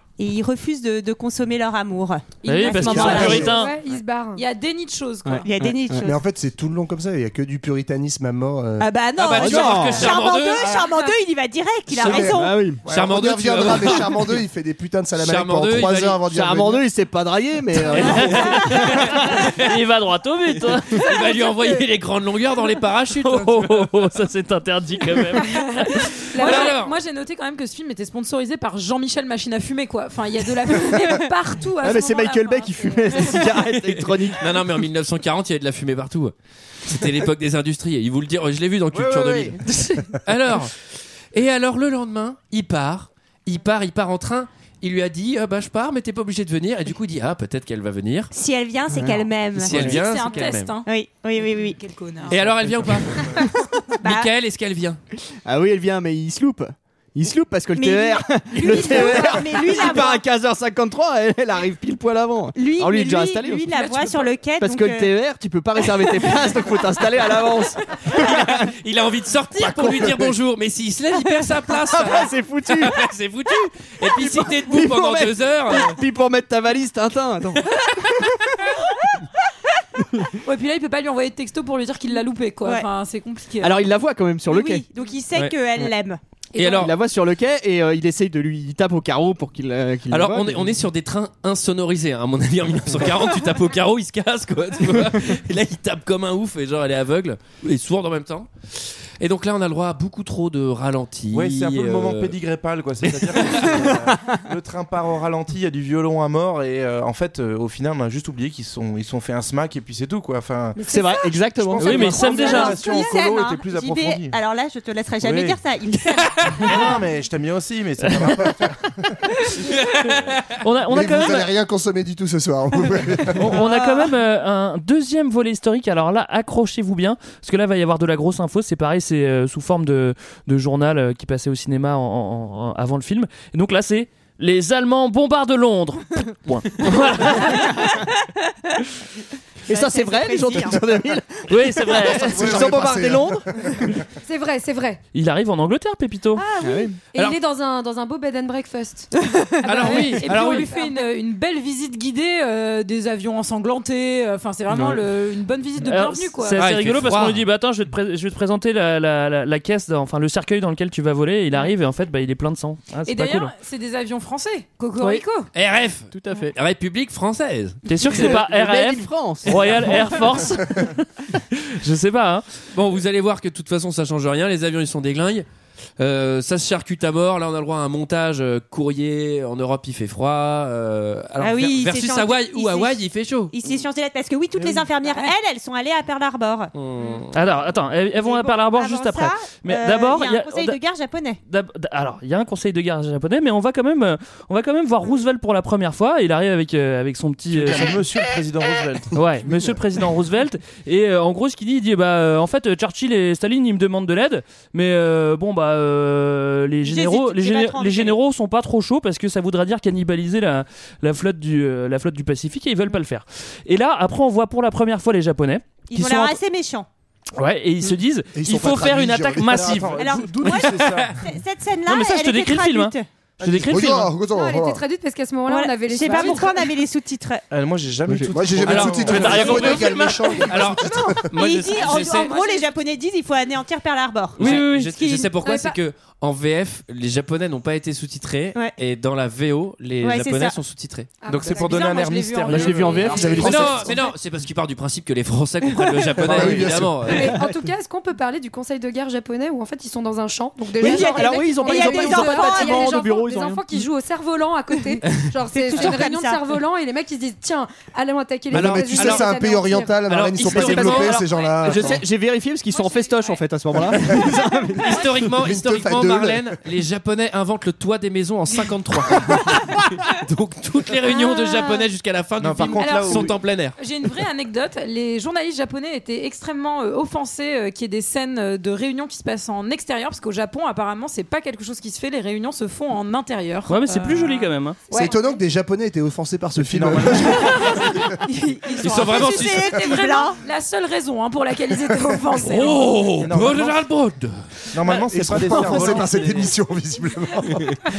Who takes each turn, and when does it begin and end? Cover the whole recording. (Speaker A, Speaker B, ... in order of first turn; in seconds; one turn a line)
Speaker A: 0.2-3.5
Speaker B: 2.5-3.7
Speaker C: 2.6-3.7
Speaker D: 2.9-3.4
Speaker E: 2.9-3.6
Speaker F: 3.0-4.4
Speaker C: 4.4-5.5
Speaker D: 5.2-6.1
Speaker A: 5.5-6.2
Speaker E: 6.0-8.9
Speaker A: 8.8-12.6
Speaker G: 9.2-10.8
Speaker D: 9.3-10.1
Speaker C: 10.8-11.1
Speaker E: 12.0-16.9
Speaker D: 12.1-12.8
Speaker G: 12.9-14.3
Speaker G: 15.2-16.2
Speaker D: 16.3-19.4
Speaker G: 17.9-19.8
Speaker B: 18.0-18.6
Speaker B: 19.6-21.2
Speaker G: 20.9-23.9
Speaker B: 23.1-26.1
Speaker C: 26.3-33.6
Speaker G: 26.4-26.9
Speaker F: 26.4-26.8
Speaker D: 31.8-34.6
Speaker G: 33.6-36.3
Speaker G: 36.9-40.7
Speaker D: 38.9-40.0
Speaker G: 41.3-48.3
Speaker A: 48.3-50.0
Speaker D: 48.9-49.9
Speaker G: 49.5-50.8
Speaker C: 49.8-52.6
Speaker A: 50.9-51.8
Speaker G: 52.3-53.4
Speaker G: 54.0-55.0
Speaker A: 54.0-54.3
Speaker D: 55.4-63.8
Speaker A: 57.8-60.2
Speaker C: 58.6-59.3
Speaker A: 62.5-65.1
Speaker C: 63.7-64.3
Speaker D: 64.6-68.7
Speaker G: 68.1-76.0
Speaker D: 69.6-70.3
Speaker D: 71.7-73.0
Speaker D: 74.0-78.3
Speaker C: 80.4-83.8
Speaker D: 83.6-84.8
Speaker A: 84.5-86.2
Speaker G: 86.6-86.9
Speaker D: 86.6-90.8
Speaker G: 90.1-98.5
Speaker G: 99.2-102.4
Speaker H: 101.3-110.8
Speaker G: 103.1-103.9
Speaker D: 103.8-104.4
Speaker D: 110.8-112.8
Speaker F: 110.8-111.1
Speaker H: 111.6-114.4
Speaker B: 111.8-112.8
Speaker A: 112.0-117.0
Speaker H: 115.2-115.6
Speaker H: 116.5-119.1
Speaker B: 118.1-118.4
Speaker G: 119.6-120.3
Speaker B: 120.5-121.5
Speaker E: 120.9-123.6
Speaker B: 123.3-137.9
Speaker A: 123.5-124.1
Speaker D: 139.7-144.0
Speaker A: 139.7-140.8
Speaker B: 141.5-142.8
Speaker E: 142.1-143.9
Speaker F: 144.2-145.0
Speaker B: 145.1-146.4
Speaker F: 146.4-149.1
Speaker D: 146.6-147.0
Speaker F: 149.6-151.1
Speaker G: 149.7-150.7
Speaker C: 149.7-156.7
Speaker D: 150.2-150.7
Speaker B: 155.8-163.5
Speaker G: 156.6-157.4
Speaker C: 163.1-165.5
Speaker G: 165.5-167.8
Speaker D: 166.1-166.6
Speaker B: 167.9-172.5
Speaker D: 168.1-170.3
Speaker G: 172.7-175.4
Speaker G: 176.0-183.5
Speaker A: 181.4-187.2
Speaker C: 185.0-185.3
Speaker G: 186.7-187.4
Speaker B: 187.3-190.8
Speaker A: 188.2-191.4
Speaker B: 191.5-198.0
Speaker H: 197.5-199.2
Speaker B: 199.2-216.4
Speaker A: 206.8-208.2
Speaker A: 215.9-216.9
Speaker B: 217.4-220.0
Speaker E: 218.3-220.0
Speaker H: 219.5-221.2
Speaker A: 220.0-223.1
Speaker G: 220.8-221.1
Speaker B: 221.9-224.1
Speaker E: 223.4-224.8
Speaker F: 224.3-226.7
Speaker A: 225.5-227.4
Speaker C: 226.1-226.5
Speaker H: 227.5-229.8
Speaker D: 228.1-228.3
Speaker E: 228.3-231.3
Speaker G: 228.6-232.3
Speaker B: 229.0-230.2
Speaker A: 231.3-235.4
Speaker C: 231.6-232.8
Speaker G: 234.4-241.1
Speaker B: 234.4-234.9
Speaker A: 240.0-240.6
Speaker F: 241.2-241.9
Speaker H: 241.3-243.6
Speaker C: 241.4-244.1
Speaker D: 242.5-243.6
Speaker E: 243.0-244.0
Speaker G: 243.4-247.4
Speaker E: 246.2-247.2
Speaker D: 246.3-246.6
Speaker F: 247.1-260.0
Speaker D: 247.2-247.4
Speaker D: 250.8-253.9
Speaker A: 250.8-253.0
Speaker A: 255.5-256.5
Speaker E: 258.5-262.0
Speaker G: 258.5-259.3
Speaker G: 260.1-261.3
Speaker D: 260.5-265.0
Speaker C: 261.2-261.7
Speaker C: 262.7-264.7
Speaker G: 264.8-273.8
Speaker E: 265.3-266.5
Speaker H: 272.4-273.4
Speaker C: 272.8-285.4
Speaker B: 283.7-284.8
Speaker E: 284.9-288.1
Speaker H: 286.6-287.6
Speaker C: 287.2-293.1
Speaker A: 288.3-290.4
Speaker G: 288.8-289.8
Speaker G: 292.4-294.4
Speaker H: 293.1-293.9
Speaker H: 294.7-296.5
Speaker E: 294.9-297.8
Speaker G: 296.1-296.4